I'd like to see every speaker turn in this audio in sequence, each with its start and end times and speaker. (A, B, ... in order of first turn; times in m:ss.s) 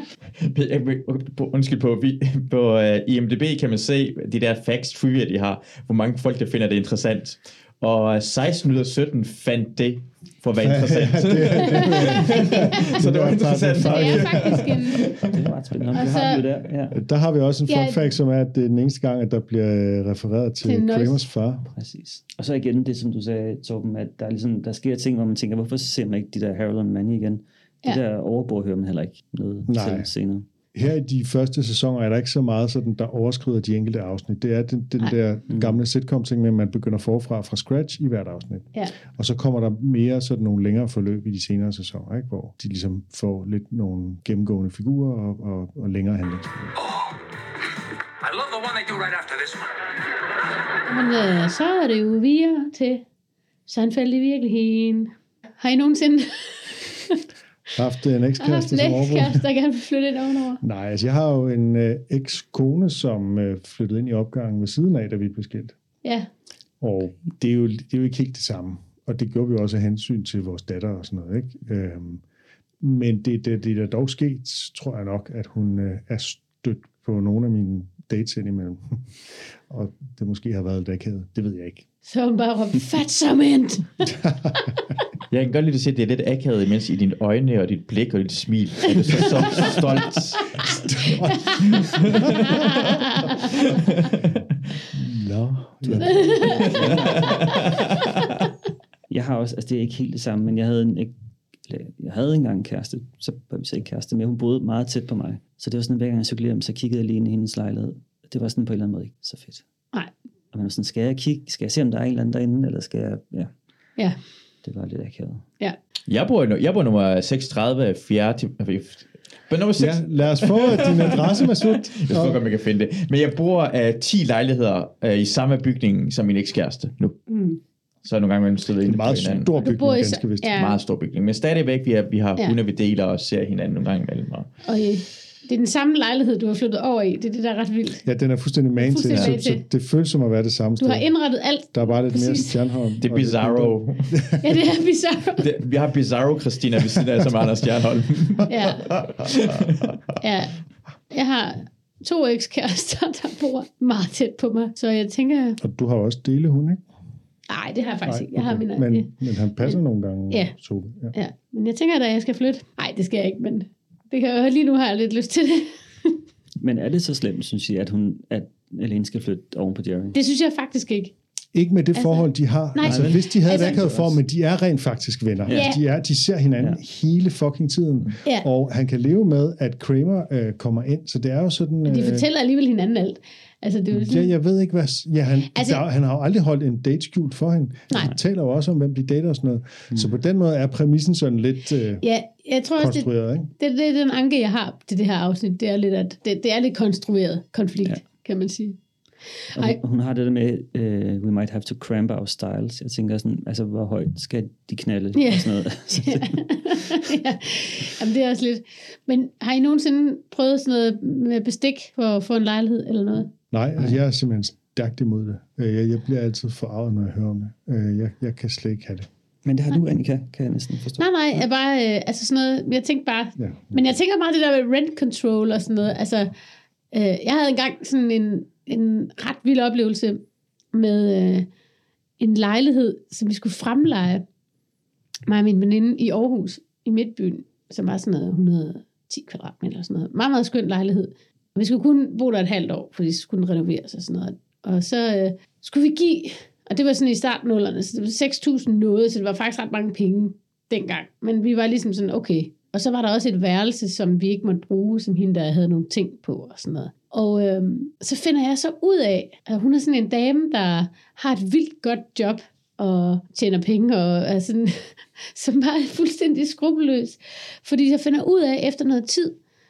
0:00.4-0:15.4 A
0:10.6-0:14.7 B
0:11.6-0:12.6 C
0:13.8-0:15.1 C
0:15.3-0:17.0 D
0:15.9-0:16.4 C
0:16.9-0:21.7 B
0:17.7-0:18.1 C
0:20.6-0:21.2 C
0:21.7-0:30.4 D
0:29.7-0:30.1 B
0:30.7-0:46.6 B
0:35.5-0:35.8 D
0:46.8-0:47.2 E
0:48.2-0:49.9 E
0:50.8-0:53.0 C
0:53.7-0:57.2 C
0:57.7-0:59.4 B
0:58.4-1:00.6 C
1:00.6-1:05.8 B
1:06.8-1:12.2 B
1:12.8-1:18.8 B
1:19.7-1:21.8 B
1:22.0-1:24.1 C
1:24.2-1:24.5 B
1:25.3-1:30.8 A
1:29.2-1:29.6 B
1:30.6-1:33.0 B
1:31.3-1:33.6 C
1:31.7-1:32.6 A
1:33.7-1:34.2 A
1:34.9-1:36.6 B
1:35.9-1:37.7 D
1:36.0-1:37.8 C
1:36.7-1:38.3 A
1:39.1-1:41.1 D
1:41.7-1:49.6 D
1:50.5-1:53.5 D
1:54.6-1:55.4 D
1:56.1-2:07.2 A
1:59.8-2:02.4 B
2:07.3-2:07.6 C
2:08.0-2:09.5 A
2:08.8-2:10.6 B
2:09.6-2:10.8 C
2:10.6-2:14.5 A
2:14.6-2:18.0 C
2:18.0-2:21.1 B
2:18.8-2:19.6 C
2:20.8-2:22.6 C
2:21.7-2:24.6 B
2:23.0-2:24.1 A
2:24.4-2:25.4 C
2:25.4-2:30.0 A
2:28.5-2:28.9 C
2:30.2-2:30.6 C
2:31.1-2:35.6 C
2:35.6-2:36.8 B
2:37.5-2:39.8 C
2:38.0-2:41.1 B
2:41.1-2:46.2 C
2:46.6-2:50.2 D
2:50.1-2:51.1 C
2:51.5-3:02.2 B
2:51.9-2:53.8 C
2:52.8-2:54.2 D
2:55.4-2:55.7 D
2:55.5-2:55.8 C
3:01.8-3:04.3 C
3:03.9-3:12.0 B
3:05.5-3:05.8 C
3:12.0-3:18.8 C
3:12.8-3:13.5 B
3:19.5-3:26.4 D
3:25.1-3:33.3 C
3:33.5-3:39.1 B
3:39.4-3:41.0 D
3:41.0-3:46.3 C
3:43.4-3:43.8 B
3:46.9-3:50.2 C
3:50.7-3:51.5 C
3:52.2-3:54.2 C
3:55.3-4:29.4 C